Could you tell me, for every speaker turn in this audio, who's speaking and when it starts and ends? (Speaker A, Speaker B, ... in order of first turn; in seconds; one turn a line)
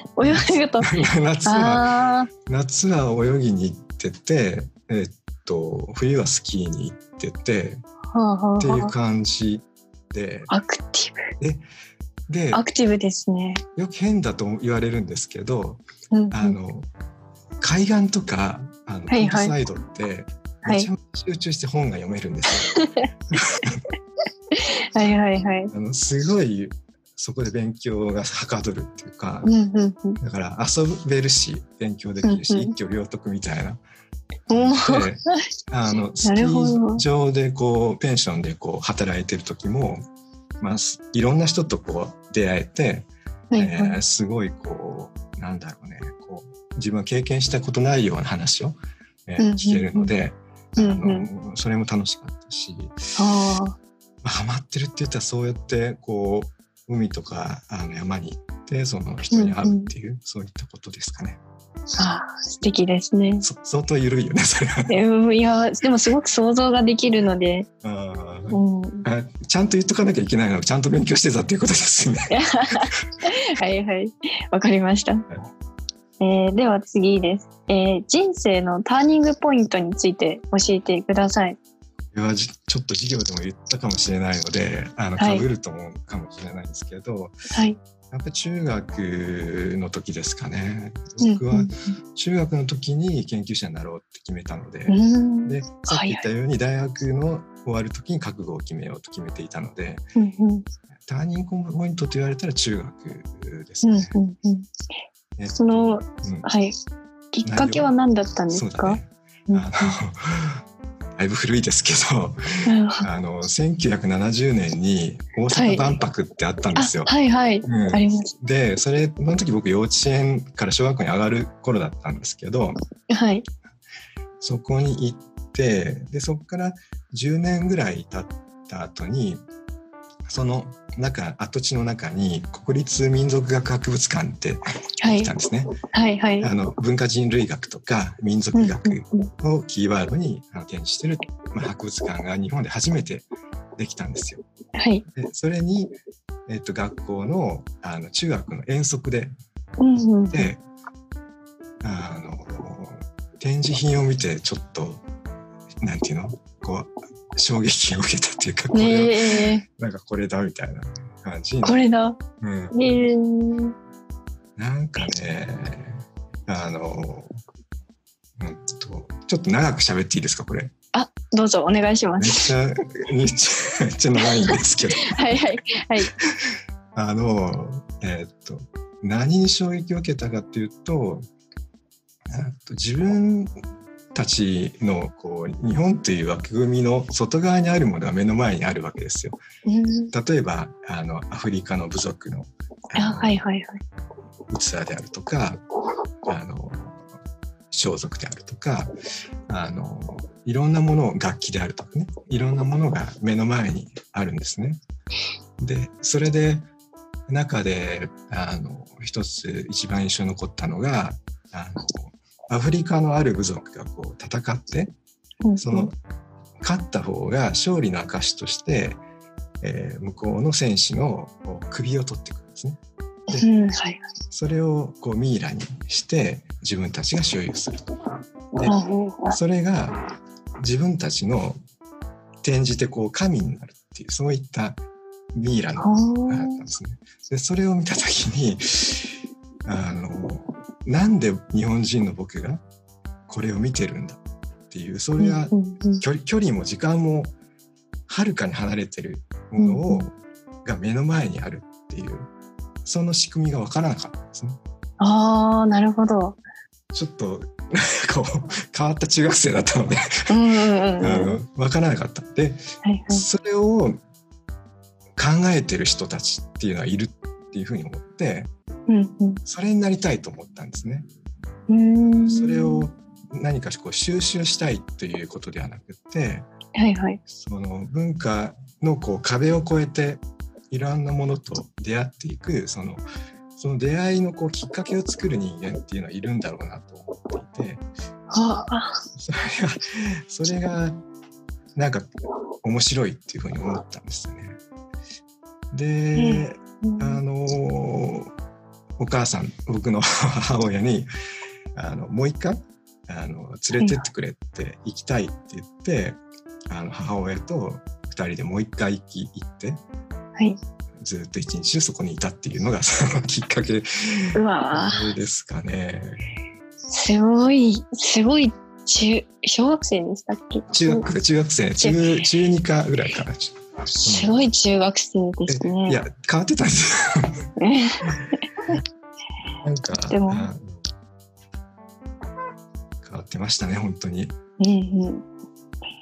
Speaker A: 0.2-2.3
Speaker B: 0.2-1.9
Speaker B: 2.4-7.8
Speaker A: 8.1-8.9
Speaker B: 8.6-10.5
Speaker A: 10.5-11.3
Speaker B: 12.3-12.6
Speaker A: 12.5-13.6
Speaker B: 13.8-16.9
Speaker A: 16.1-16.6
Speaker B: 17.6-22.8
Speaker A: 19.1-19.5
Speaker A: 20.6-20.9
Speaker A: 22.7-23.1
Speaker B: 23.3-23.8
Speaker A: 24.5-25.7
Speaker B: 25.7-29.5
Speaker A: 29.4-30.2
Speaker B: 30.2-33.8
Speaker A: 32.2-32.7
Speaker A: 34.5-35.4
Speaker B: 34.5-40.0
Speaker A: 36.2-37.0
Speaker B: 40.6-53.1
Speaker A: 43.5-44.0
Speaker A: 49.4-50.1
Speaker A: 50.8-51.3
Speaker A: 53.1-53.8
Speaker B: 54.2-61.4
Speaker A: 59.3-59.9
Speaker A: 62.0-63.4
Speaker B: 63.4-65.0
Speaker A: 64.9-67.7
Speaker B: 67.8-72.4
Speaker A: 68.5-69.1
Speaker A: 72.3-75.3
Speaker A: 76.2-81.6
Speaker B: 82.1-87.4
Speaker A: 85.2-85.4
Speaker A: 87.5-87.8
Speaker B: 88.1-100.1
Speaker A: 91.2-91.9
Speaker A: 94.9-96.2
Speaker A: 100.2-100.7
Speaker B: 101.1-104.2
Speaker A: 103.8-104.7
Speaker B: 105.4-106.5
Speaker A: 105.6-106.8
Speaker A: 107.3-109.9
Speaker B: 107.4-107.9
Speaker B: 108.5-110.6
Speaker B: 111.2-117.1
Speaker A: 112.6-113.1
Speaker A: 115.5-115.9
Speaker A: 116.8-118.3
Speaker B: 117.6-122.8
Speaker A: 123.1-123.4
Speaker B: 124.4-129.4
Speaker B: 130.2-135.7
Speaker A: 135.0-135.3
Speaker A: 135.9-136.5
Speaker B: 136.4-143.2
Speaker A: 138.6-139.3
Speaker B: 143.8-144.4
Speaker A: 144.8-145.1
Speaker B: 145.1-145.9
Speaker B: 146.5-149.3
Speaker A: 149.8-150.5
Speaker B: 150.3-150.6
Speaker B: 151.8-155.0
Speaker B: 155.8-161.8
Speaker A: 158.7-159.6
Speaker A: 161.6-162.2
Speaker B: 162.4-162.8
Speaker A: 162.7-163.7
Speaker B: 164.6-167.4
Speaker B: 168.4-170.7
Speaker A: 170.9-172.5
Speaker B: 172.2-175.4
Speaker A: 174.2-176.1
Speaker B: 176.2-181.3
Speaker B: 182.3-183.6
Speaker B: 184.1-189.4
Speaker A: 189.7-190.1
Speaker B: 190.1-193.4
Speaker A: 192.9-193.8
Speaker B: 194.5-195.6
Speaker B: 196.2-197.0
Speaker B: 197.7-198.9
Speaker B: 199.5-204.8
Speaker B: 205.6-206.6
Speaker B: 207.3-214.9
Speaker A: 215.4-215.9
Speaker B: 215.6-215.9
Speaker B: 216.6-219.0
Speaker B: 219.6-222.8
Speaker A: 223.3-224.0
Speaker B: 224.3-228.0
Speaker A: 228.7-229.4
Speaker B: 229.3-230.1
Speaker B: 230.6-231.6
Speaker B: 232.4-234.8
Speaker B: 235.3-239.1
Speaker A: 235.8-236.6
Speaker B: 239.6-242.6
Speaker B: 243.3-247.3
Speaker A: 245.2-246.0
Speaker B: 248.1-252.3
Speaker A: 249.6-250.1
Speaker B: 252.8-254.6
Speaker A: 255.0-256.4
Speaker B: 256.9-260.3
Speaker A: 260.3-261.4
Speaker B: 261.0-264.0
Speaker A: 262.8-263.2
Speaker B: 265.1-268.5
Speaker A: 268.9-269.4
Speaker B: 269.4-271.1
Speaker A: 271.7-272.9
Speaker B: 272.0-276.5
Speaker A: 276.7-277.2
Speaker B: 277.3-283.0
Speaker B: 283.6-287.9
Speaker A: 288.3-289.0
Speaker B: 289.1-291.0
Speaker B: 291.7-292.1
Speaker B: 292.6-294.6
Speaker B: 295.7-298.3
Speaker A: 296.2-297.2
Speaker B: 299.0-301.1
Speaker B: 301.7-306.2
Speaker A: 303.8-304.1
Speaker B: 306.7-309.8
Speaker B: 311.0-316.3
Speaker A: 314.3-315.1
Speaker A: 316.9-321.1
Speaker B: 320.7-324.4
Speaker A: 324.0-326.0
Speaker B: 325.5-327.5
Speaker A: 327.6-328.8
Speaker B: 328.0-328.8
Speaker B: 329.6-330.8
Speaker A: 330.1-330.5
Speaker B: 333.0-334.4
Speaker A: 334.6-335.2